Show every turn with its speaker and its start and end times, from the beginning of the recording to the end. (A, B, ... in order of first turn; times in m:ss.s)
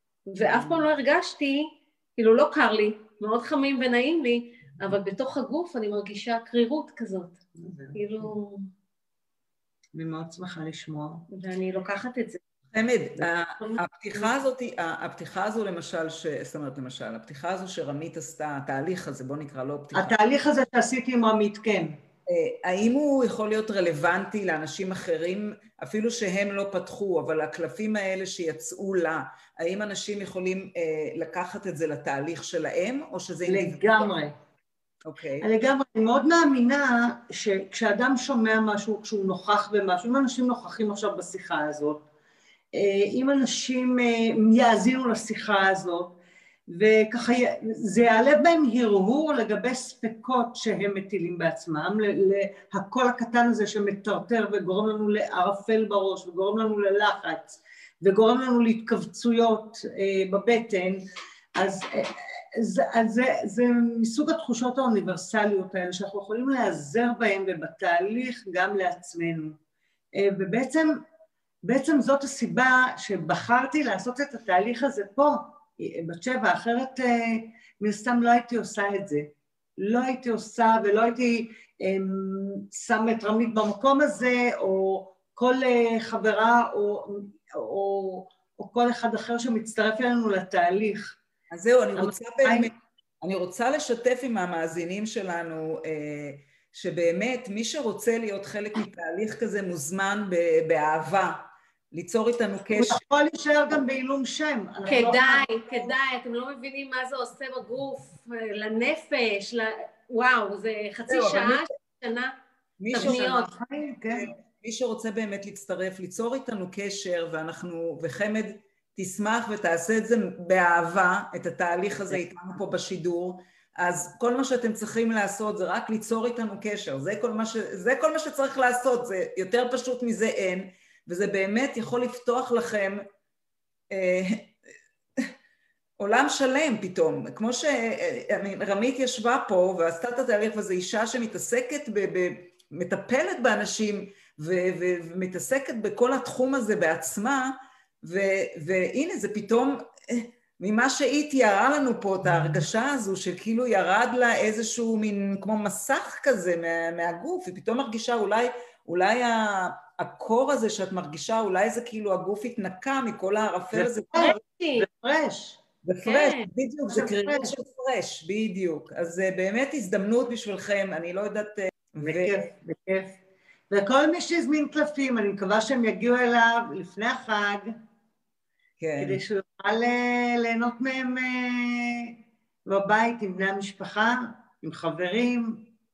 0:00.3-0:07.4 A
0:00.4-0:00.8 B
0:07.6-0:08.3 B
0:07.9-0:08.7 A
0:09.9-0:11.2 B
0:11.3-0:12.4 A
0:12.7-0:20.2 C
0:13.6-0:14.2 A
0:19.9-0:21.9 B
0:22.3-0:34.1 C
0:33.4-0:34.3 B
0:35.0-0:35.5 C
0:35.4-0:42.0 B
0:42.7-1:09.6 B
1:10.1-1:10.9 B
1:11.6-1:31.2 B
1:31.5-1:43.0 C
1:32.0-1:32.7 B
1:42.7-1:45.9 B
1:44.8-1:52.3 A
1:51.1-1:51.6 C
1:52.8-1:53.3 C
1:52.9-1:53.5 A
1:52.9-1:54.3 B
1:54.1-2:13.0 C
2:13.9-2:14.5 C
2:16.0-2:44.3 C
2:43.7-2:45.6 B
2:44.1-2:44.9 A
2:45.8-2:52.5 C
2:46.0-2:46.5 A
2:46.9-2:47.6 B
2:52.0-2:53.2 B
2:53.7-2:57.7 B
2:58.8-2:59.2 C
2:59.0-3:05.7 B